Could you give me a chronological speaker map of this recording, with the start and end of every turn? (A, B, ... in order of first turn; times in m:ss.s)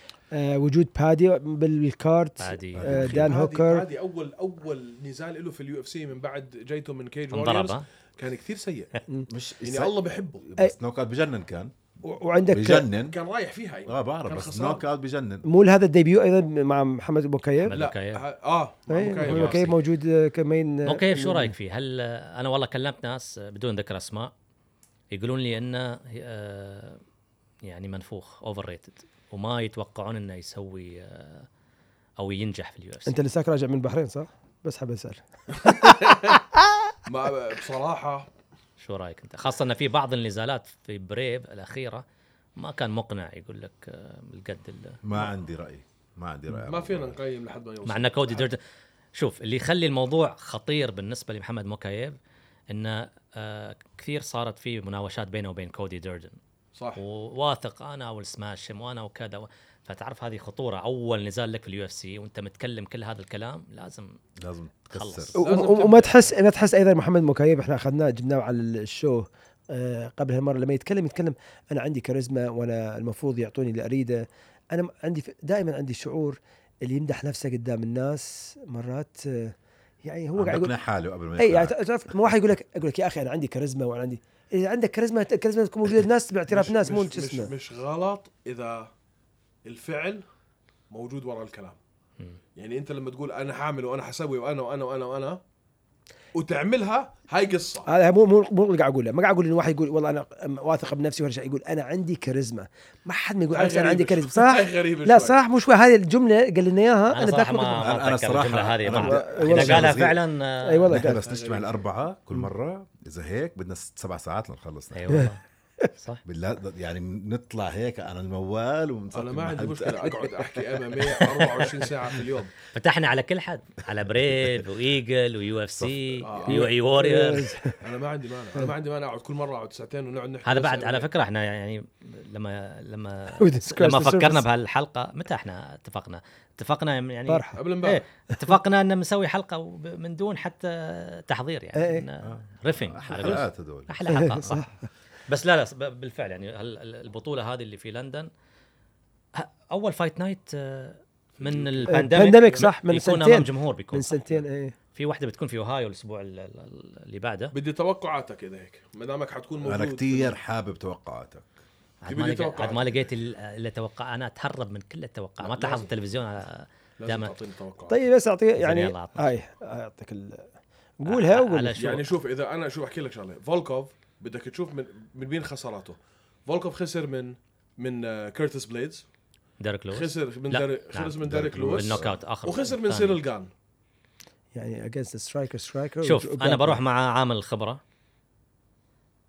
0:00.3-0:03.8 A
0:02.4-0:03.1 B
0:02.8-0:03.3 C
0:03.0-0:08.9 D
0:07.3-0:07.8 B
0:09.3-0:11.8 C
0:09.6-0:10.5 D
0:12.0-0:12.9 A
0:12.5-0:13.2 C
0:13.1-0:14.8 D
0:13.9-0:15.4 C
0:15.4-0:17.8 A
0:17.6-0:18.2 B
0:17.7-0:19.8 D
0:18.9-0:21.6 A
0:19.3-0:19.8 B
0:20.9-0:24.3 B
0:25.1-0:27.0 B
0:27.6-0:31.5 B
0:32.2-0:33.2 B
0:33.1-0:36.4 A
0:35.6-0:36.3 D
0:37.1-0:38.3 D
0:38.8-0:42.0 B
0:42.6-0:45.0 B
0:45.0-0:47.2 C
0:46.5-0:48.5 D
0:47.9-0:48.6 B
0:49.1-0:52.2 B
0:52.7-0:56.4 B
0:56.8-0:57.0 D
0:57.0-1:04.2 B
1:04.4-1:05.4 C
1:04.9-1:05.4 B
1:05.4-1:20.7 A
1:05.4-1:06.3 D
1:20.4-1:21.9 C
1:21.4-1:27.5 A
1:26.5-1:28.9 D
1:29.6-1:30.2 D
1:30.9-1:31.8 D
1:32.6-1:35.4 D
1:36.4-1:37.9 D
1:37.9-1:47.9 A
1:43.5-1:45.4 D
1:47.1-1:51.0 B
1:47.8-1:50.2 C
1:48.9-1:50.1 A
1:50.6-1:51.2 A
1:50.9-1:55.3 C
1:51.1-1:51.8 D
1:54.9-1:55.4 B
1:56.0-1:56.2 B
1:56.2-2:00.1 C
1:59.1-2:02.5 D
2:02.7-2:07.5 B
2:06.2-2:06.7 D
2:06.5-2:07.8 A
2:07.8-2:11.1 D
2:10.4-2:24.7 B
2:13.4-2:14.5 A
2:17.3-2:17.6 A
2:17.6-2:18.0 D
2:21.8-2:22.1 A
2:22.2-2:23.9 C
2:24.2-2:24.7 A
2:25.3-2:28.3 B
2:29.4-2:34.4 B
2:31.4-2:32.6 D
2:31.9-2:34.8 A
2:35.0-2:37.5 B
2:37.5-2:40.4 D
2:39.6-2:41.5 C
2:42.0-2:47.3 B
2:42.1-2:43.1 D
2:45.4-2:45.9 D
2:47.0-2:48.0 D
2:47.9-2:50.4 A
2:48.6-2:49.3 B
2:51.0-2:52.1 A
2:51.1-2:52.0 B
2:51.8-2:59.0 D
2:59.6-3:03.2 B
2:59.9-3:03.5 D
3:01.2-3:02.2 C
3:04.6-3:06.8 A
3:06.0-3:07.8 B